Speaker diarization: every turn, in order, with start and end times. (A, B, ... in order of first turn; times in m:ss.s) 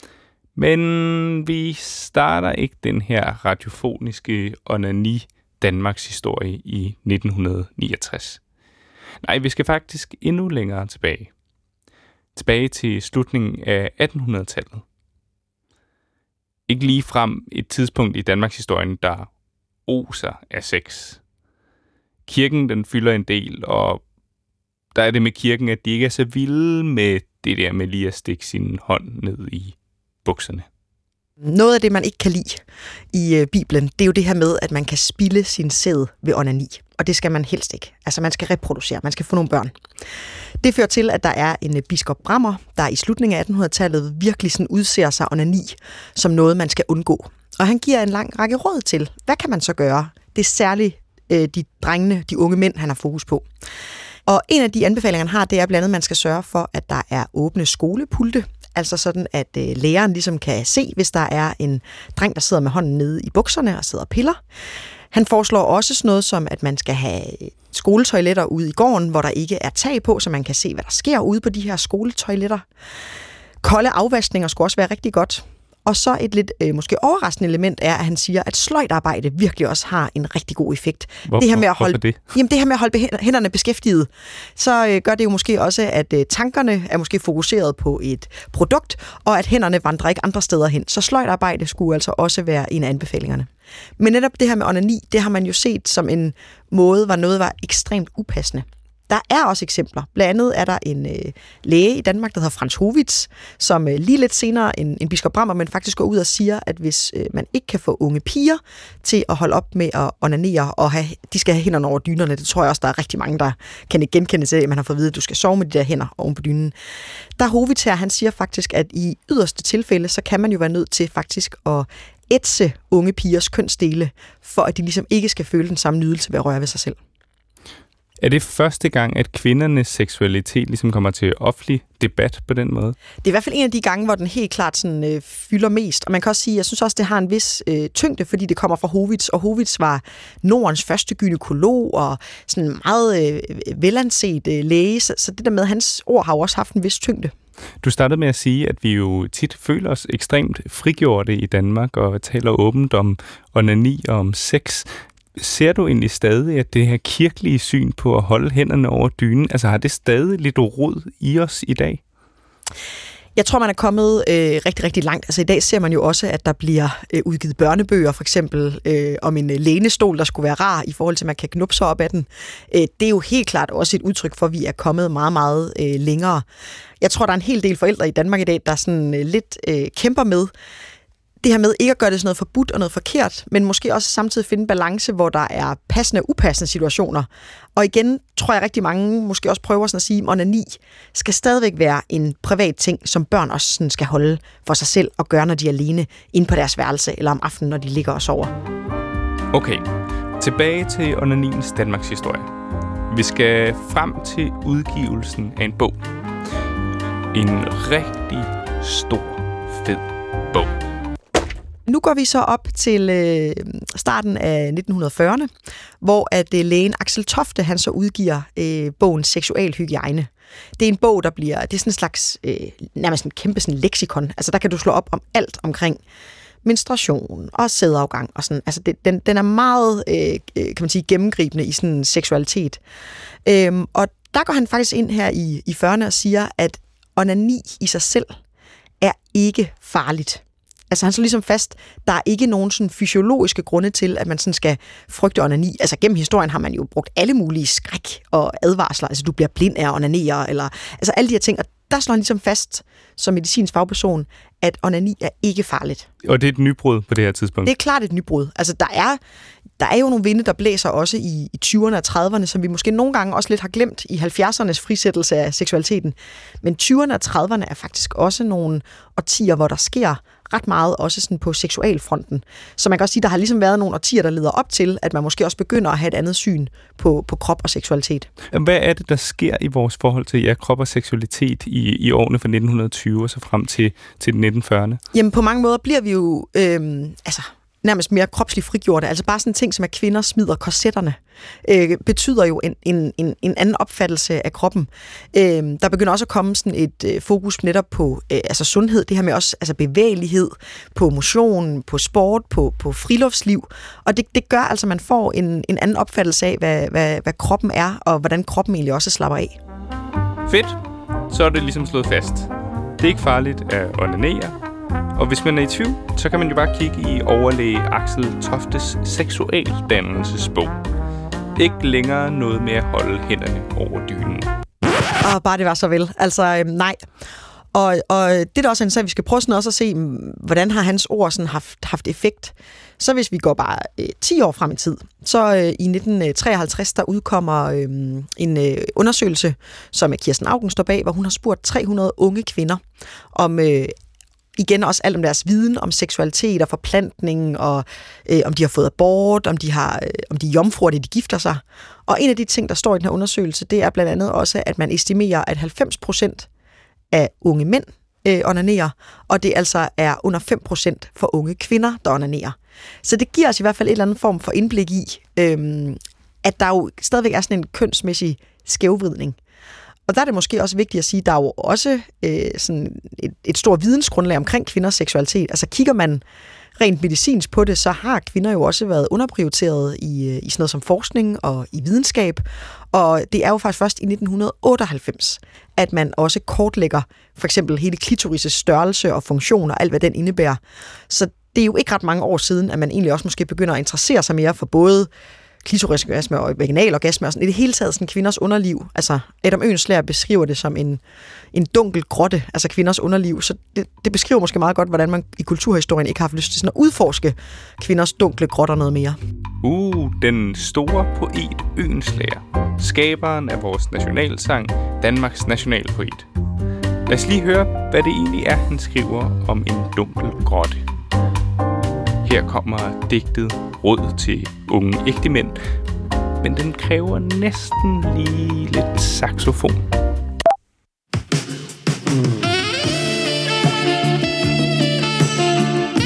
0:00.6-0:08.4 A
0:09.2-0:11.3 A
0:12.3-0:14.8 A
0:16.7-0:19.3 A
0:19.9-0:21.2 A
0:22.2-0:24.0 A
0:24.9-0:30.6 A
0:31.4-0:39.7 B
0:40.6-0:53.4 B
0:54.3-1:04.4 B
1:05.1-1:12.6 B
1:13.6-1:56.7 B
1:21.3-1:22.3 A
1:57.4-2:07.0 B
2:08.2-2:13.0 A
2:13.2-2:27.3 B
2:27.8-2:42.0 A
2:43.4-2:56.4 B
2:57.0-3:00.5 B
3:01.4-3:18.5 B
3:19.5-3:22.5 A
3:23.1-3:26.0 A
3:27.3-3:30.7 A
3:31.9-3:35.5 B
3:36.0-3:46.0 B
3:46.6-3:52.8 B
3:53.4-3:58.4 B
3:59.0-4:16.1 B
4:16.2-4:17.7 A
4:17.6-4:19.2 B
4:19.8-4:38.3 B
4:38.5-4:45.0 A
4:45.1-5:09.6 B
5:10.5-5:10.8 A
5:11.3-5:14.5 A
5:15.2-5:20.8 A
5:21.6-5:24.5 A
5:25.2-5:27.0 B
5:27.7-5:42.8 B
5:43.3-5:43.9 B
5:44.6-5:56.5 B
5:57.1-6:09.4 B
6:10.1-6:16.2 B
6:16.8-6:35.1 B
6:35.6-6:41.0 B
6:41.5-6:49.2 B
6:49.6-6:56.3 A
6:57.1-7:00.8 A
7:02.2-7:05.6 A
7:06.4-7:09.8 A